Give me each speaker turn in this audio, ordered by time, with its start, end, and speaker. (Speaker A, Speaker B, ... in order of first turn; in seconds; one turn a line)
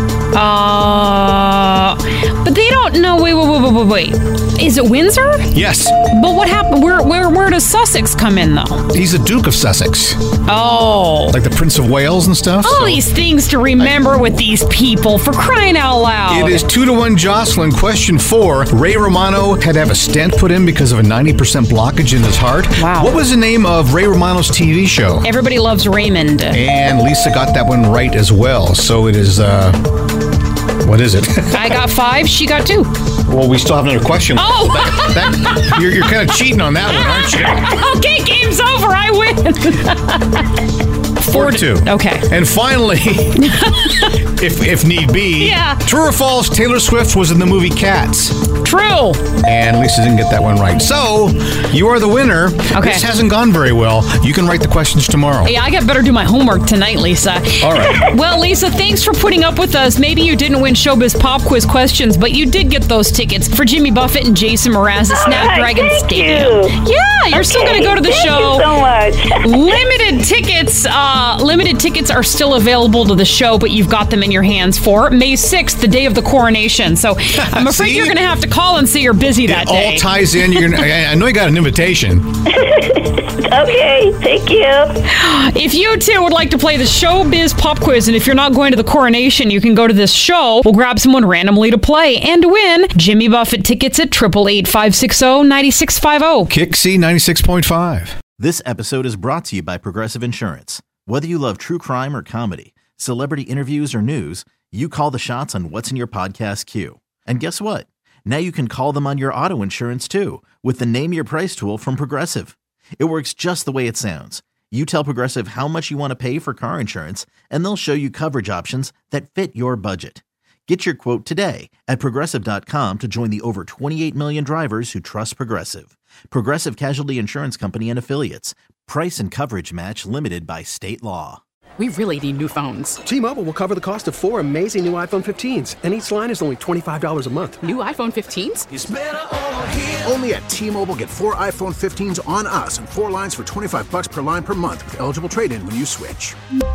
Speaker A: 0.3-5.5
Speaker B: 5.5-6.0
Speaker A: 6.0-8.8
Speaker B: 8.9-10.2
Speaker A: 10.4-11.4
Speaker B: 11.3-13.0
Speaker A: 12.6-16.6
Speaker B: 16.3-25.3
Speaker A: 22.8-23.2
Speaker A: 25.2-26.6
Speaker B: 26.5-30.0
Speaker B: 30.8-31.8
Speaker A: 31.5-33.0
Speaker B: 33.3-37.7
Speaker A: 34.4-35.9
Speaker A: 36.9-40.6
Speaker A: 41.2-42.3
Speaker B: 41.3-48.5
Speaker A: 43.4-44.2
Speaker A: 45.4-45.8
Speaker A: 48.6-49.3
Speaker B: 49.4-55.5
Speaker A: 52.7-53.0
Speaker A: 55.4-68.7
Speaker B: 57.6-58.0
Speaker C: 65.1-66.8
Speaker C: 67.3-69.8
Speaker A: 69.4-80.8
Speaker B: 77.4-78.2
Speaker B: 79.4-82.4
Speaker C: 82.5-85.0
Speaker A: 85.1-96.5
Speaker B: 96.5-98.2
Speaker D: 98.4-131.4
Speaker E: 131.8-133.0
Speaker F: 133.1-137.6
Speaker E: 137.6-138.7
Speaker G: 138.7-146.4